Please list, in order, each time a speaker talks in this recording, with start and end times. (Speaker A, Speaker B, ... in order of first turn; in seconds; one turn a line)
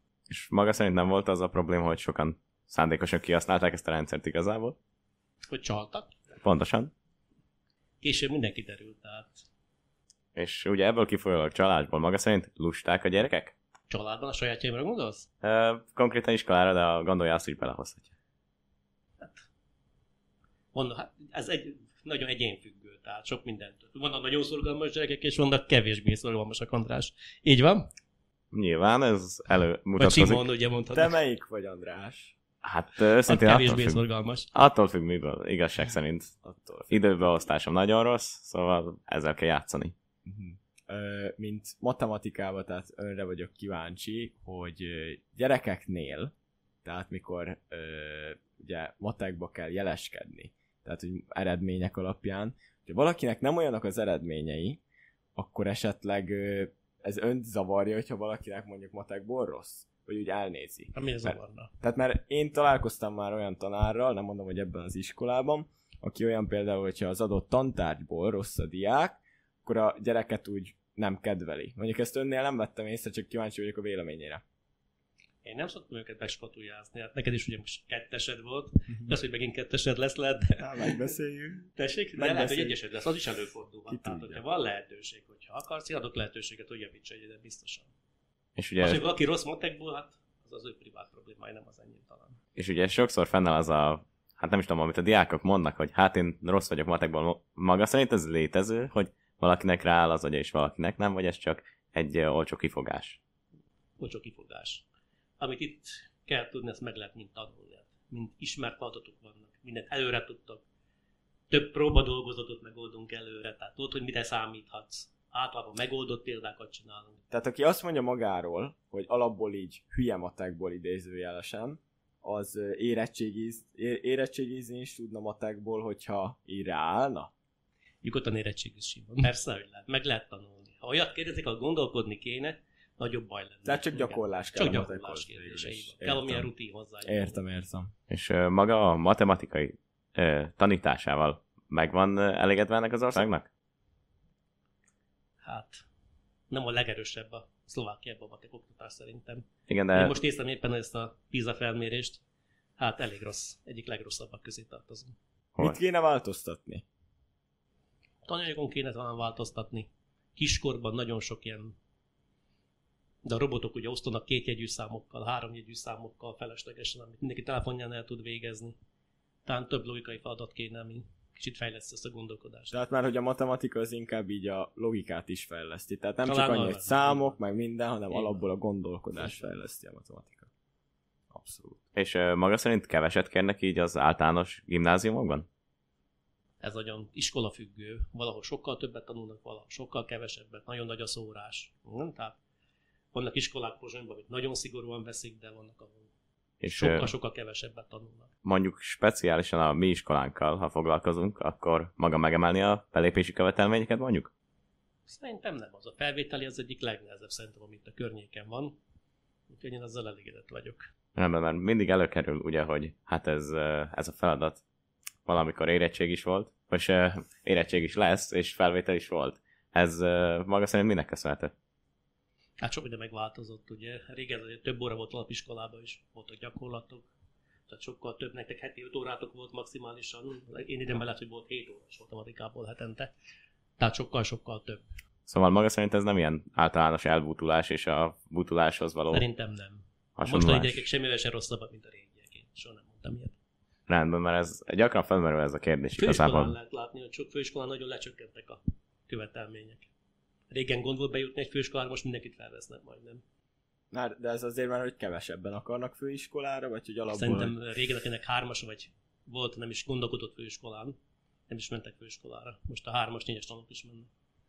Speaker A: 0.3-4.8
Speaker B: 5.5-6.2
Speaker A: 6.3-6.9
Speaker B: 8.0-9.4
Speaker A: 10.3-13.5
Speaker B: 13.9-15.3
Speaker A: 15.4-18.1
Speaker B: 19.2-19.4
Speaker B: 20.7-27.9
Speaker A: 28.5-30.5
Speaker B: 30.0-31.2
Speaker C: 30.9-32.4
Speaker A: 32.6-36.3
Speaker B: 33.2-34.5
Speaker C: 36.4-36.9
Speaker A: 36.9-39.9
Speaker C: 40.2-46.3
Speaker C: 46.8-54.8
Speaker C: 55.3-74.4
Speaker B: 60.9-61.7
Speaker B: 75.4-81.0
Speaker C: 80.6-82.8
Speaker B: 81.7-87.9
Speaker C: 83.9-84.4
Speaker A: 88.6-89.1
Speaker B: 88.8-92.4
Speaker A: 92.5-103.2
Speaker B: 104.0-104.8
Speaker B: 105.4-110.6
Speaker B: 111.5-117.2
Speaker C: 117.3-127.3
Speaker B: 128.0-137.4
Speaker C: 133.6-136.5
Speaker C: 137.0-137.9
Speaker A: 138.1-143.5
Speaker B: 145.4-145.8
Speaker B: 146.5-152.2
Speaker A: 149.7-150.2
Speaker B: 152.8-155.1
Speaker C: 155.6-156.8
Speaker B: 158.2-161.7
Speaker B: 163.2-168.8
Speaker B: 169.4-172.7
Speaker C: 172.7-180.5
Speaker B: 176.2-177.4
Speaker B: 178.1-178.5
Speaker B: 179.2-179.5
Speaker C: 181.3-181.8
Speaker A: 181.9-185.4
Speaker B: 186.6-192.4
Speaker B: 193.1-196.1
Speaker A: 196.6-197.1
Speaker B: 196.7-198.3
Speaker A: 198.4-204.3
Speaker B: 205.1-208.8
Speaker B: 209.5-210.8
Speaker A: 211.2-214.6
Speaker A: 215.2-221.5
Speaker B: 222.6-227.1
Speaker B: 227.7-233.1
Speaker B: 233.8-234.8
Speaker A: 235.3-239.2
Speaker B: 239.1-243.3
Speaker A: 240.2-240.9
Speaker A: 243.9-246.6
Speaker B: 246.0-249.9
Speaker B: 250.5-253.2
Speaker C: 253.9-257.5
Speaker B: 257.1-261.0
Speaker B: 261.5-264.1